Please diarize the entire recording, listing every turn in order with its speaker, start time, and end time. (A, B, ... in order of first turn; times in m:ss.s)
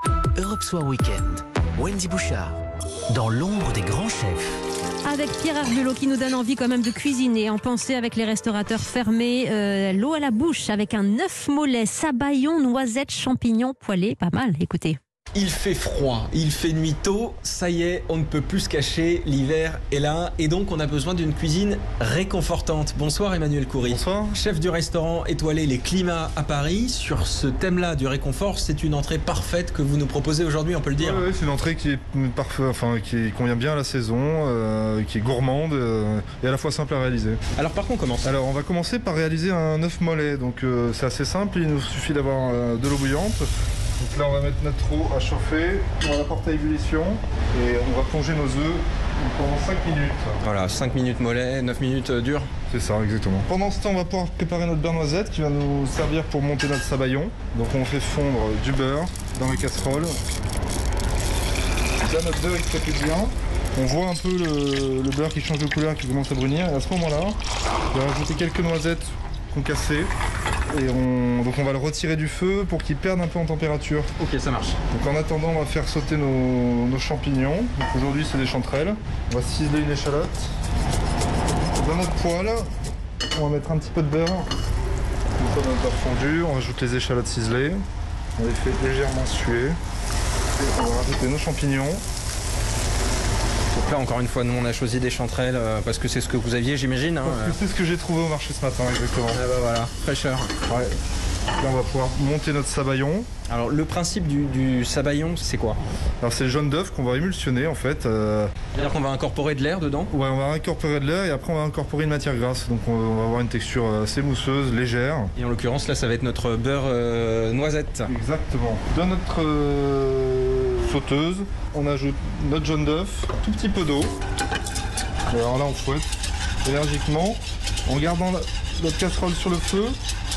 0:00.4-0:04.6 A
0:05.0-0:15.0 B
0:15.3-0:31.3 C
0:23.8-0:24.4 D
0:30.9-0:37.4 D
0:37.5-0:38.3 C
0:38.2-0:50.4 D
0:50.4-0:52.5 C
0:52.7-1:00.1 D
1:02.0-1:07.4 D
1:07.9-1:10.1 D
1:10.7-1:14.1 D
1:14.2-1:14.8 C
1:14.9-1:20.5 D
1:21.8-1:22.7 D
1:23.3-1:24.5 D
1:25.4-1:27.8 D
1:28.4-1:29.8 D
1:30.5-1:32.0 D
1:33.7-1:37.6 C
1:37.2-1:39.4 D
1:39.3-1:40.5 C
1:40.7-1:40.9 D
1:41.6-1:43.3 D
1:43.5-1:45.8 C
1:46.2-1:48.6 D
1:48.7-1:50.1 C
1:50.1-1:55.3 D
1:55.4-1:58.1 C
1:58.0-2:04.1 D
2:05.3-2:06.1 D
2:06.6-2:10.0 D